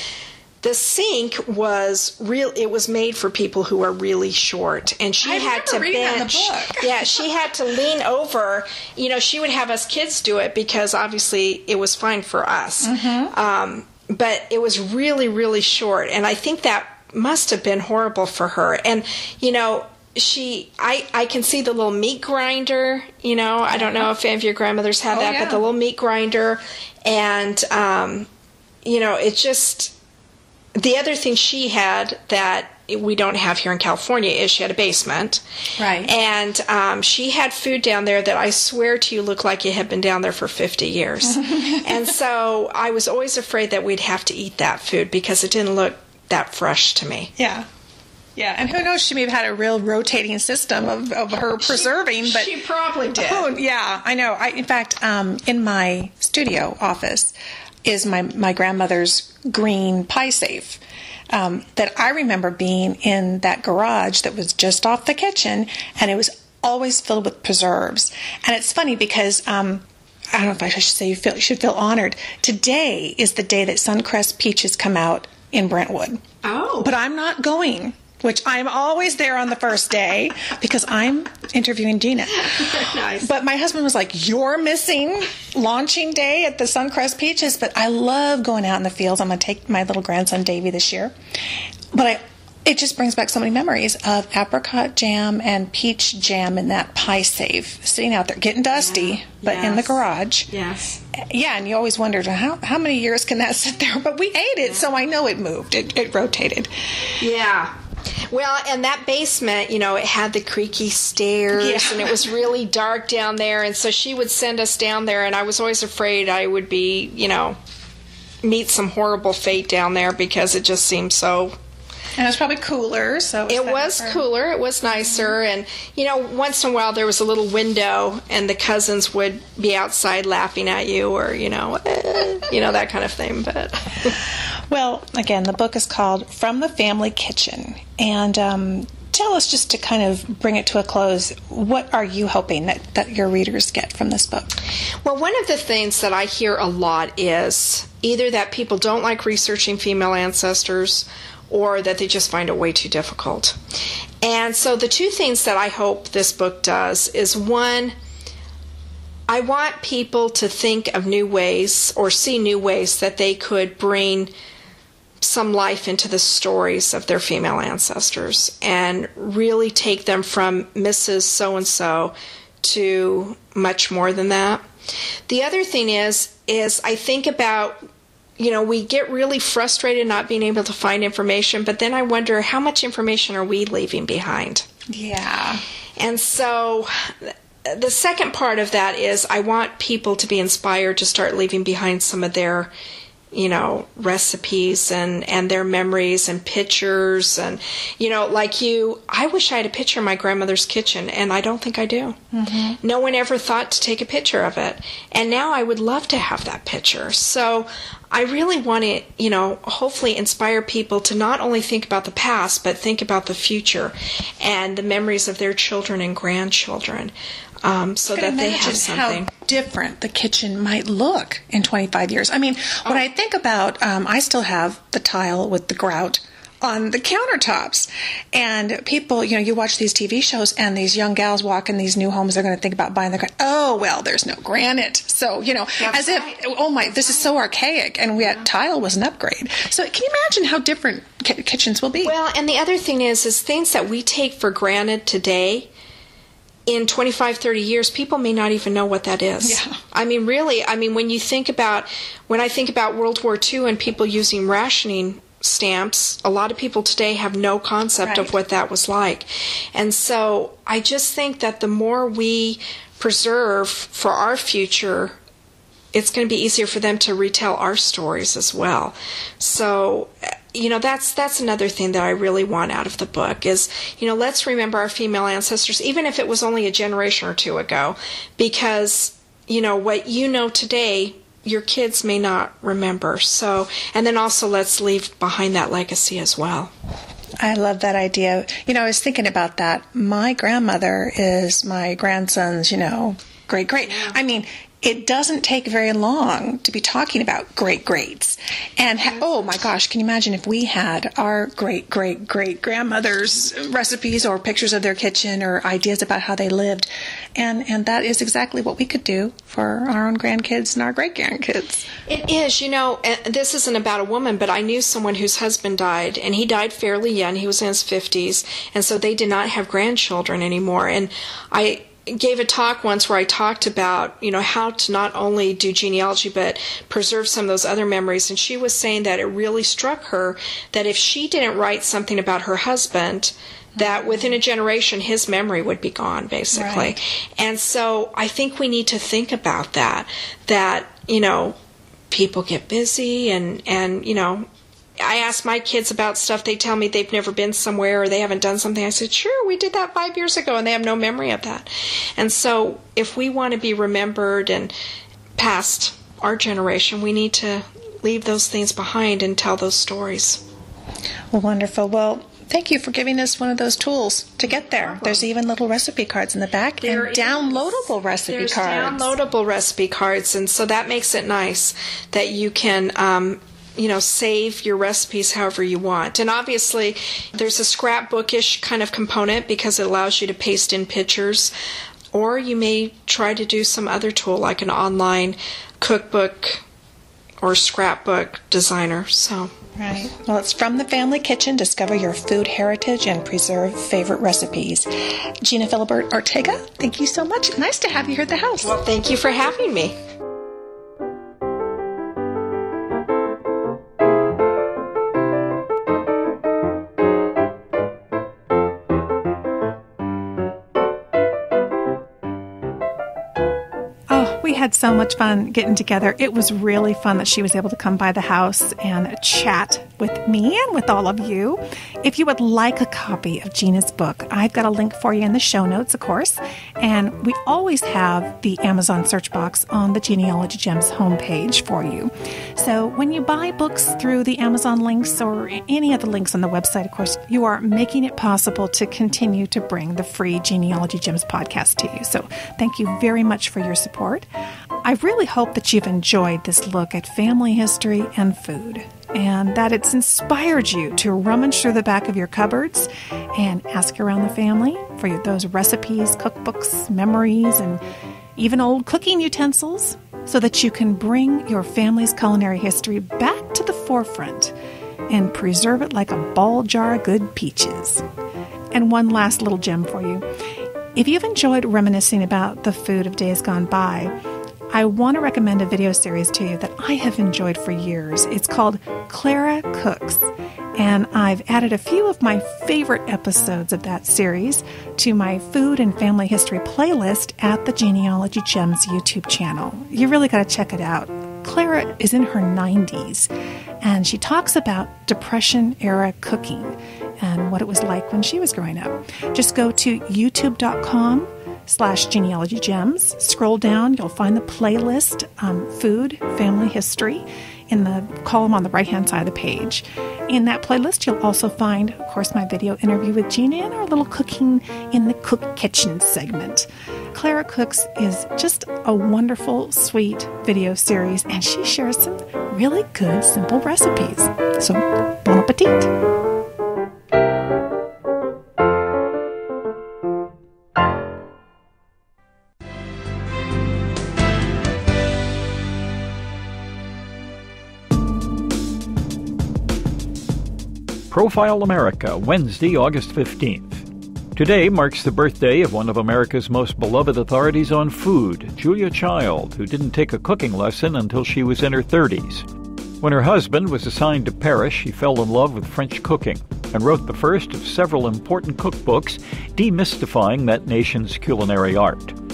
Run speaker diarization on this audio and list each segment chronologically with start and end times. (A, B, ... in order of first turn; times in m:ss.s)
0:00.6-0:28.3 A
0:05.2-0:07.3 B
0:12.8-0:13.3 B
0:23.7-0:24.1 B
0:25.1-0:25.6 B
0:28.8-0:29.9 A
0:30.8-0:35.4 A
0:35.8-0:36.1 B
0:36.0-0:47.3 A
0:41.4-0:41.9 B
0:47.4-0:47.7 B
0:48.4-0:52.6 B
0:51.6-0:53.5 A
0:53.2-0:57.3 B
0:57.8-1:16.2 B
1:16.4-1:16.9 A
1:16.8-1:31.1 B
1:22.4-1:23.3 A
1:31.9-1:40.5 B
1:38.8-1:41.0 A
1:41.1-1:46.7 B
1:47.2-1:57.6 A
1:51.5-1:52.3 B
1:58.4-2:01.6 A
2:02.2-2:04.2 B
2:03.5-2:14.2 A
2:14.7-2:24.6 B
2:25.0-2:33.6 A
2:34.2-2:38.0 A
2:39.3-2:44.3 A
2:45.2-2:54.7 A
2:55.3-2:57.8 A
2:58.4-3:04.7 A
3:04.9-3:05.6 B
3:06.0-3:12.7 A
3:13.3-3:22.2 A
3:22.3-3:22.8 B
3:22.8-3:37.1 A
3:37.6-3:39.3 A
3:38.1-4:02.1 B
3:55.8-3:56.4 A
4:02.0-4:05.7 A
4:06.7-4:25.2 A
4:09.4-4:09.8 B
4:18.0-4:18.3 B
4:25.9-4:46.7 A
4:47.4-5:11.9 B
4:53.9-4:54.2 A
5:12.1-5:41.6 A
5:33.8-5:34.3 B
5:36.5-5:37.0 B
5:42.1-5:44.5 A
5:45.0-5:54.7 A
5:55.4-6:00.4 A
6:01.3-6:09.2 B
6:04.6-6:05.2 A
6:06.8-6:21.5 A
6:22.1-6:26.6 A
6:27.4-6:29.5 A
6:29.8-6:34.9 B
6:35.4-6:38.8 B
6:38.6-6:40.0 A
6:54.1-7:24.3 B
7:24.8-7:37.8 B
7:38.4-7:44.5 B
7:45.1-7:48.0 B
7:48.7-7:50.2 B
7:51.0-7:54.1 B
7:54.7-8:13.3 B
8:13.8-8:45.9 B
9:01.1-9:12.5 C
9:13.0-9:22.2 C